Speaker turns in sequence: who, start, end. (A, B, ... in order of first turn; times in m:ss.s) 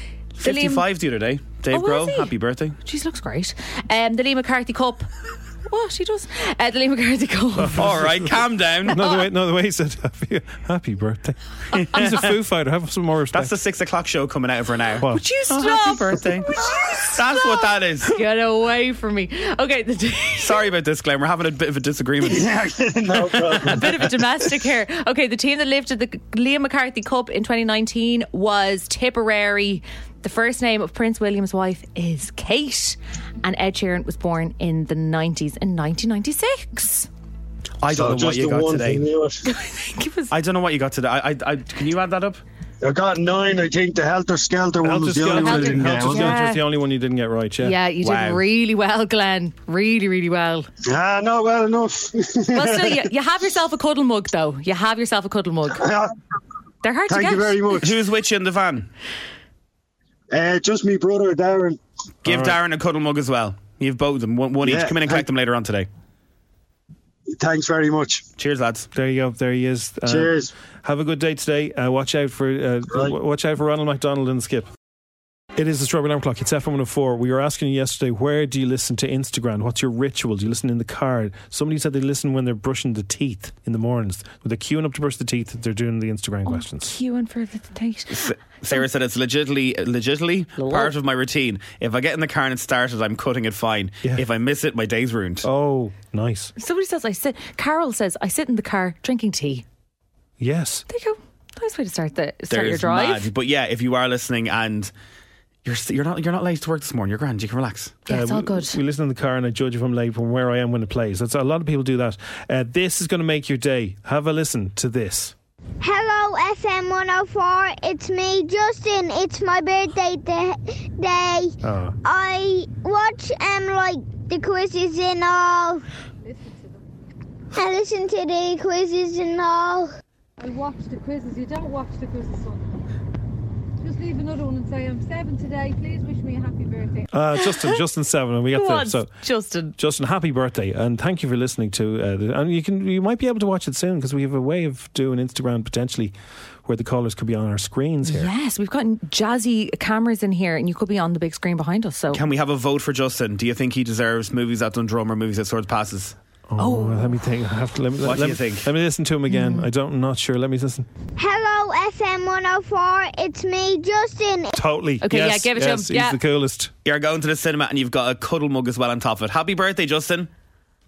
0:00.4-0:02.8 A
0:00.4-0:00.8 B
0:01.7-0:02.3 B
0:02.8-0:05.1 B
0:05.7-0:08.0 B
0:07.6-0:13.5 C
0:07.8-0:09.0 A
0:11.7-0:12.3 A
0:13.3-0:18.2 A
0:15.1-0:17.0 B
0:18.1-0:20.6 B
0:20.4-0:22.7 A
0:22.2-0:24.1 D
0:23.6-0:37.1 B
0:37.8-0:39.0 A
0:37.9-0:39.4 D
0:39.4-0:40.3 B
0:40.3-0:42.4 A
0:42.8-0:46.4 D
0:44.8-0:47.8 C
0:45.2-0:46.6 B
0:47.6-0:50.7 B
0:48.0-0:48.4 A
0:50.8-0:53.0 D
0:52.5-0:55.9 B
0:55.8-0:56.1 D
0:56.8-0:57.7 B
0:57.1-0:57.9 D
0:57.8-0:58.9 A
1:00.3-1:01.8 D
1:02.2-1:02.6 C
1:02.2-1:05.9 A
1:04.6-1:05.2 D
1:07.3-1:08.2 D
1:08.4-1:08.9 A
1:08.9-1:14.7 C
1:10.1-1:10.5 D
1:15.6-1:26.9 C
1:26.4-1:28.3 B
1:28.1-1:35.4 A
1:30.6-1:30.9 B
1:35.4-1:36.5 C
1:36.6-1:39.6 B
1:40.4-1:40.8 C
1:40.9-1:43.3 B
1:42.5-1:44.9 A
1:45.6-1:48.0 A
1:48.1-1:48.8 B
1:48.1-1:55.3 C
1:55.8-2:05.8 E
2:01.6-2:02.0 C
2:06.2-2:06.8 F
2:07.5-2:09.9 E
2:10.4-2:12.8 F
2:13.8-2:17.1 F
2:17.1-2:19.1 C
2:17.4-2:17.8 B
2:18.5-2:19.7 B
2:19.8-2:28.3 C
2:28.0-2:32.2 B
2:32.1-2:36.2 A
2:36.5-2:40.9 C
2:36.6-2:37.2 B
2:38.0-2:38.7 A
2:39.3-2:39.7 B
2:41.2-2:44.6 E
2:44.6-2:46.7 C
2:45.0-2:46.2 B
2:46.8-2:50.3 A